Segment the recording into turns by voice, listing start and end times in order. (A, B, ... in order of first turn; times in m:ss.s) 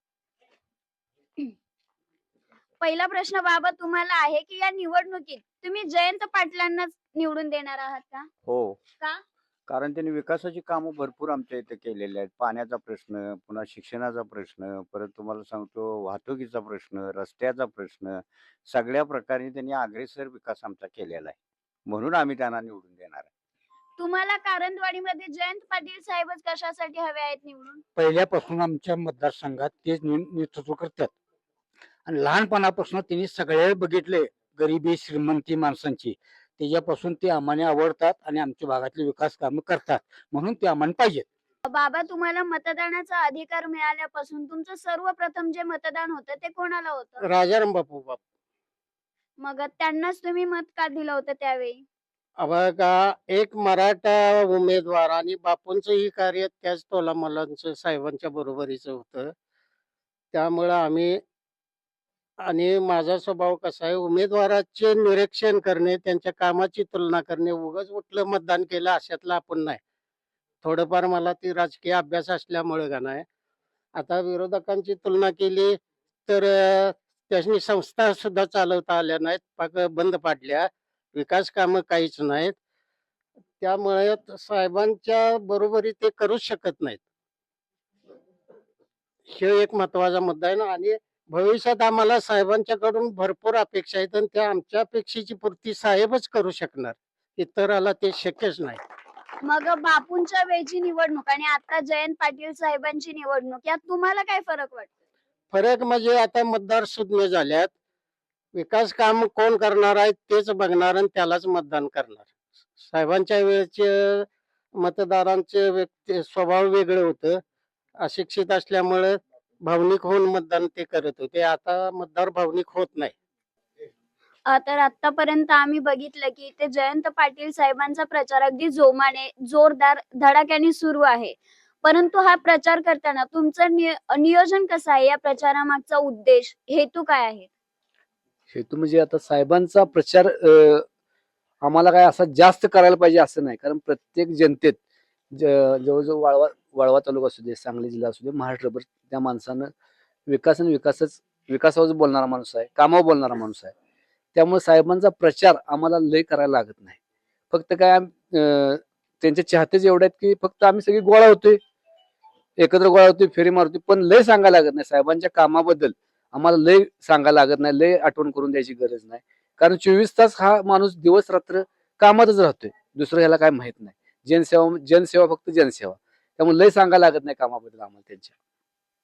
0:02.8-0:08.3 A
0:09.7-0:18.2 B
0:18.7-0:21.3 B
0:21.9-0:23.2 B
0:24.0-0:27.8 A
0:28.0-0:31.1 C
0:32.1-0:41.2 C
0:41.7-0:47.2 A
0:47.2-0:48.2 D
0:49.4-0:51.8 A
0:52.4-0:59.3 D
1:00.3-1:01.2 D
1:02.4-1:09.8 D
1:10.6-1:13.2 D
1:14.0-1:22.6 D
1:23.6-1:27.0 D
1:29.3-1:38.8 D
1:39.4-1:44.9 A
1:45.5-1:47.7 D
1:48.6-1:54.3 D
1:54.8-1:57.4 D
1:58.0-2:03.1 D
2:04.5-2:17.5 A
2:18.5-2:20.8 E
2:21.6-2:24.8 E
2:25.3-2:29.7 E
2:30.3-2:33.7 E
2:34.4-2:37.0 E
2:37.5-2:41.6 E
2:42.6-2:58.3 E